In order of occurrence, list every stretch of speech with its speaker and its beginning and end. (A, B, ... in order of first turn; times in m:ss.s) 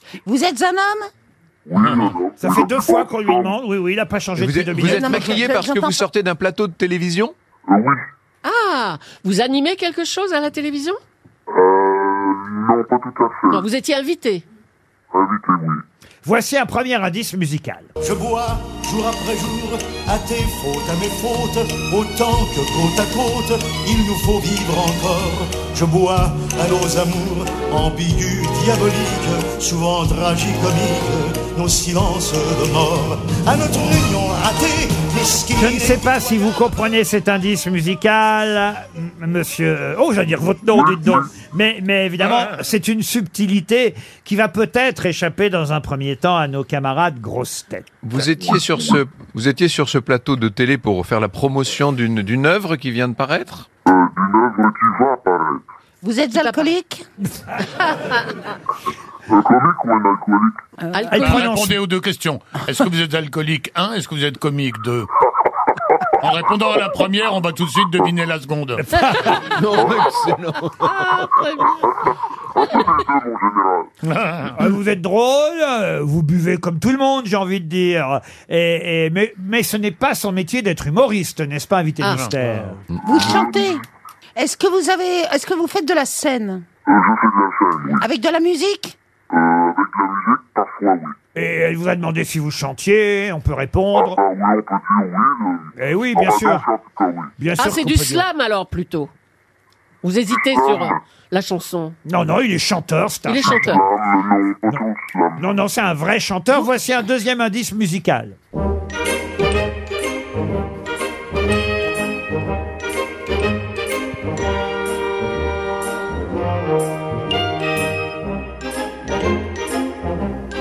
0:00.2-0:01.1 A
0:01.6-0:03.5 B
0:01.8-0:02.1 C
0:02.4-0:05.3 D
0:04.4-0:07.3 E
0:04.8-0:06.0 A
0:07.7-0:08.0 B
0:08.4-0:11.0 F
0:11.5-0:13.7 B
0:13.5-0:14.4 F
0:15.1-0:15.8 B
0:16.2-0:17.9 D
0:18.0-0:36.2 G
0:35.5-0:47.9 D
0:40.7-0:41.3 B
0:48.0-0:53.7 E
0:48.3-0:48.9 B
0:53.8-0:55.6 B
0:56.0-0:57.1 A
0:56.4-0:56.7 F
0:59.3-1:00.6 B
1:00.8-1:01.2 A
1:00.9-1:01.5 F
1:01.1-1:01.8 D
1:01.2-1:05.1 C
1:06.2-1:08.8 C
1:08.8-1:09.3 D
1:09.6-1:10.7 E
1:09.7-1:10.1 B
1:10.8-1:11.8 F
1:11.7-1:13.9 B
1:14.0-1:14.6 C
1:14.5-1:22.8 D
1:23.0-1:23.8 A
1:23.1-1:23.7 B
1:24.4-1:26.6 A
1:26.8-1:28.0 B
1:28.0-1:29.0 A
1:29.3-1:31.2 B
1:31.3-1:34.2 D
1:33.9-1:37.3 B
1:35.8-1:36.6 D
1:37.4-1:38.2 D
1:37.6-1:39.1 F
1:40.0-1:42.0 F
1:40.3-1:41.0 B
1:42.0-1:43.8 D
1:43.3-1:43.8 F
1:43.4-1:45.4 B
1:45.4-1:48.4 D